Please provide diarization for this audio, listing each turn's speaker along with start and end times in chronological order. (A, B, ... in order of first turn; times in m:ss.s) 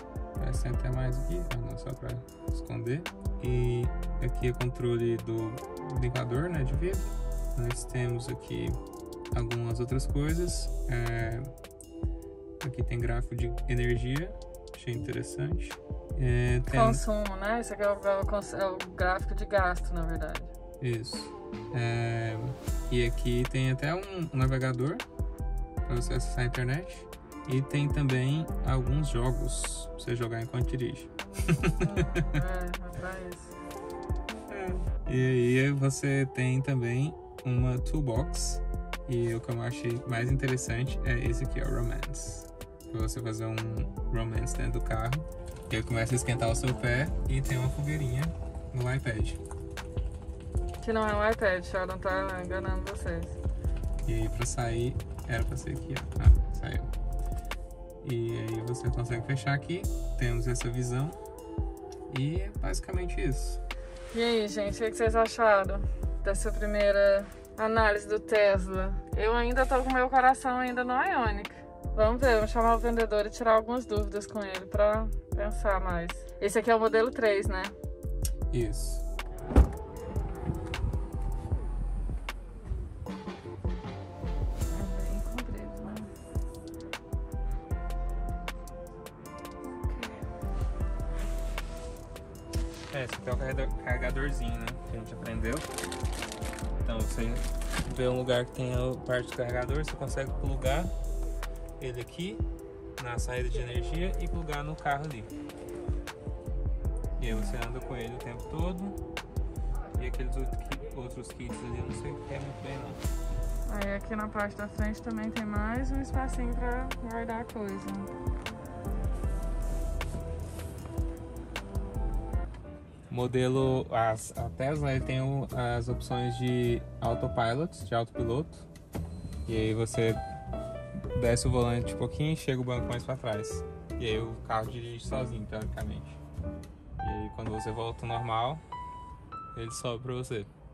0:00.4-0:08.8 A
0:09.3-0:11.5 A
0:12.6-0:17.0 A
0:16.7-0:20.5 B
0:20.8-0:25.0 A
0:25.8-0:32.4 A
0:31.8-0:33.6 B
0:34.5-0:49.4 A
0:50.8-0:53.4 B
0:54.0-0:56.9 A
0:58.0-1:01.2 A
1:02.1-1:03.6 A
1:04.1-1:17.7 B
1:18.5-1:19.0 A
1:24.7-1:26.1 B
1:29.9-1:30.2 B
1:32.9-1:35.7 A
1:36.8-1:40.9 A
1:41.8-1:42.4 A
1:43.0-1:45.3 A
1:47.2-1:49.0 A
1:47.3-1:47.6 B
1:50.0-1:53.0 A
1:53.7-1:58.1 B
2:03.1-2:08.7 A
2:09.5-2:10.2 A
2:11.0-2:16.2 A
2:17.0-2:18.6 A
2:19.6-2:20.5 A